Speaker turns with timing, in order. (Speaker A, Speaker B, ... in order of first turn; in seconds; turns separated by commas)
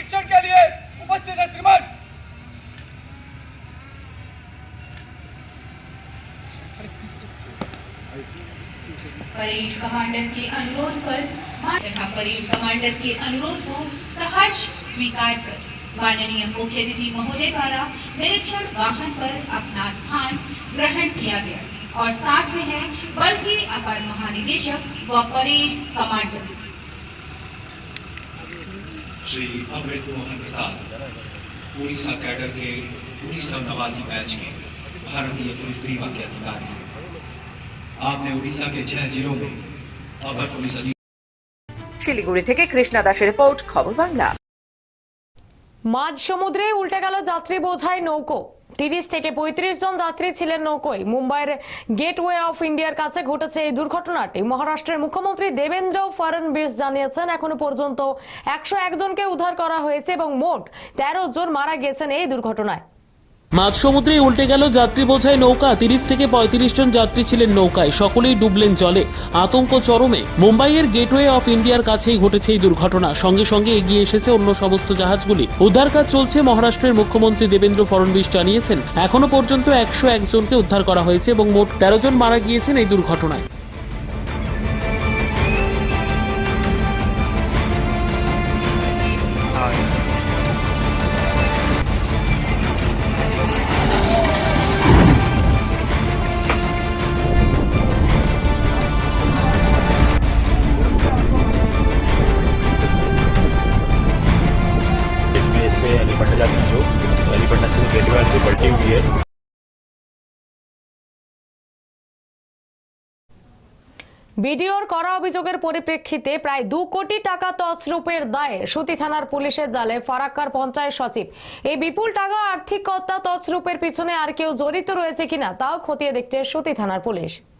Speaker A: 9.5-26.4, Speaker B: 29.2-30.8, Speaker B: 31.8-36.8, Speaker B: 38.0-39.6, Speaker B: 40.2-40.9, Speaker C: 42.0-44.3, Speaker D: 45.9-62.8, Speaker E: 63.5-83.4, Speaker F: 105.3-109.1, Speaker D: 114.4-127.4